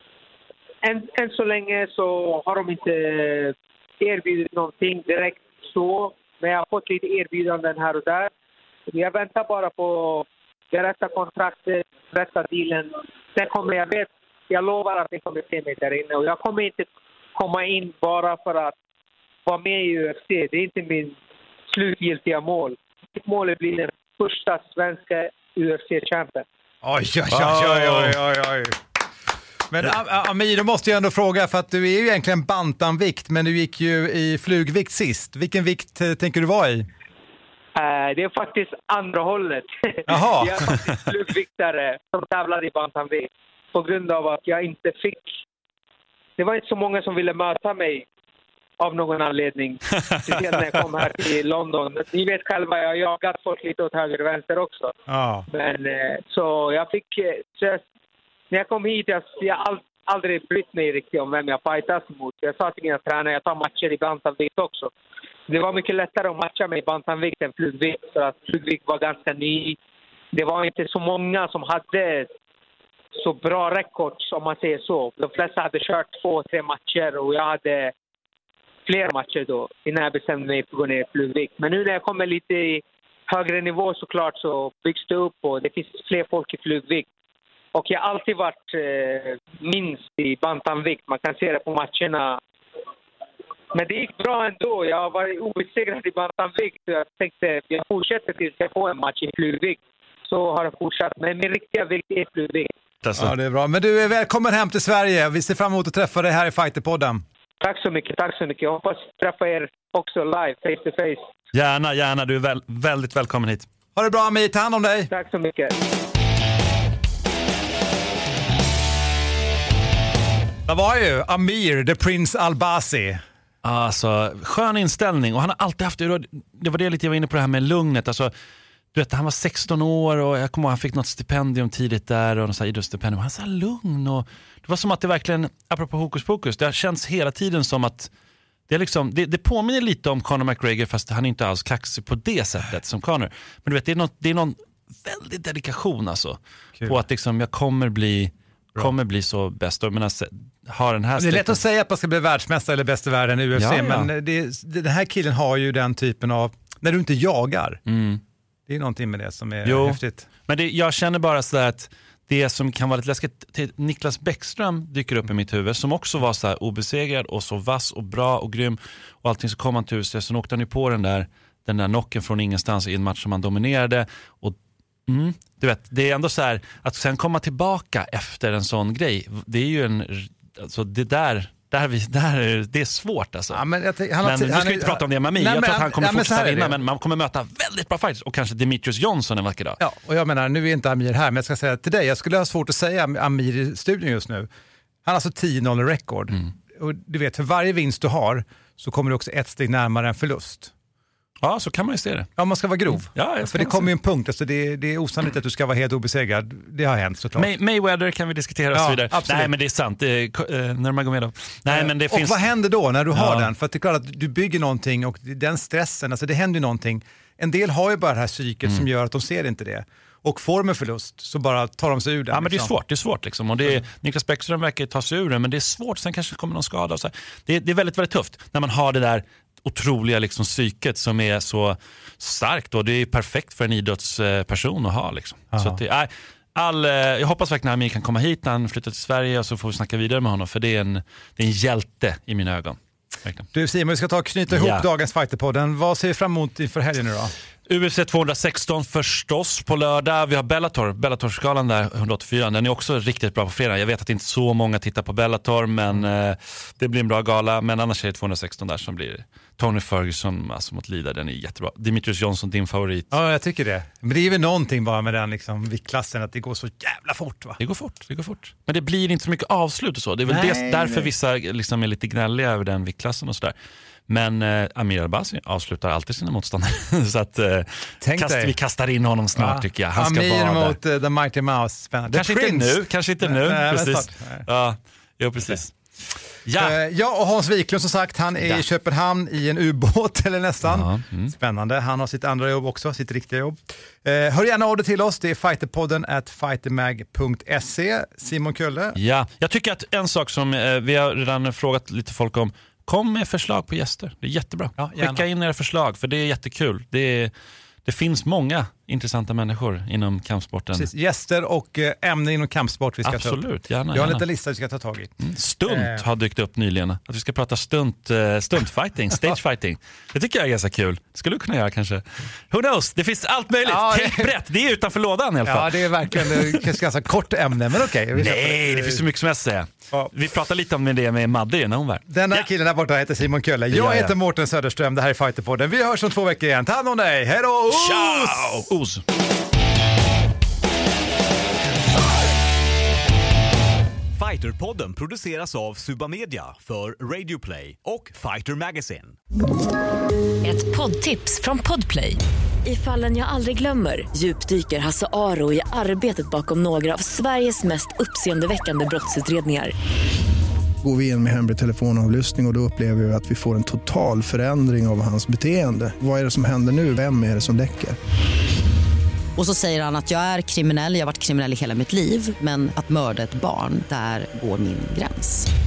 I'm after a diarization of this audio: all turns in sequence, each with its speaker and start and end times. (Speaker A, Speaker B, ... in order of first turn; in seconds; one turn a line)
Speaker A: 0.8-8.3
Speaker A: 8.9-18.7
Speaker A: 19.4-21.2
Speaker A: 21.7-26.4
Speaker B: 26.8-28.8
Speaker C: 27.3-28.2
Speaker B: 29.7-36.9
Speaker A: 37.8-45.3
Speaker B: 40.1-40.6
Speaker A: 46.4-48.0
Speaker A: 48.8-54.9
Speaker B: 55.1-55.5
Speaker A: 55.5-57.8
Speaker A: 58.5-64.9
Speaker A: 65.5-69.8
Speaker A: 70.3-72.3
Speaker A: 73.2-77.9
Speaker A: 78.8-87.1
Speaker A: 87.7-92.4
Speaker A: 93.7-102.7
Speaker C: 103.0-103.3
Speaker B: 103.2-107.2
Speaker A: 107.6-111.3
Speaker C: 111.5-113.7
Speaker B: 114.0-115.1
Speaker A: 115.1-115.7
Speaker B: 120.7-123.2
Speaker C: 123.6-128.3
Speaker C: 128.9-138.1
Speaker C: 138.7-151.6
Speaker B: 151.2-157.8
Speaker C: 153.6-154.1
Speaker C: 157.9-158.2
Speaker B: 158.7-160.2
Speaker C: 159.6-174.6
Speaker C: 175.1-183.6
Speaker B: 183.5-186.8
Speaker C: 184.2-189.8
Speaker B: 189.8-194.5
Speaker B: 195.0-200.7
Speaker C: 201.4-202.3
Speaker B: 202.4-207.5
Speaker C: 202.9-203.9
Speaker C: 207.3-212.4
Speaker B: 208.7-209.5
Speaker B: 211.7-222.7
Speaker C: 213.1-213.5
Speaker C: 222.3-243.4
Speaker B: 235.5-235.8
Speaker B: 243.5-247.3
Speaker C: 244.5-244.9
Speaker C: 247.7-263.1
Speaker B: 263.1-267.6
Speaker C: 267.6-273.5
Speaker B: 270.3-271.1
Speaker C: 274.1-280.8
Speaker B: 278.0-278.5
Speaker B: 279.4-284.4
Speaker C: 282.1-285.7
Speaker C: 286.4-286.7
Speaker B: 286.6-299.0
Speaker C: 290.6-291.3
Speaker C: 299.0-307.3
Speaker B: 304.8-305.2
Speaker C: 307.8-310.9
Speaker B: 310.7-313.4
Speaker C: 313.0-314.2
Speaker B: 313.9-315.1
Speaker C: 315.2-326.6
Speaker B: 315.7-316.0
Speaker B: 323.6-324.3
Speaker B: 325.4-329.0
Speaker C: 328.1-332.4
Speaker B: 332.1-338.6
Speaker C: 333.7-334.1
Speaker C: 337.7-339.0
Speaker D: 344.2-349.1
Speaker E: 350.4-359.7
Speaker F: 360.8-367.9
Speaker G: 369.4-375.5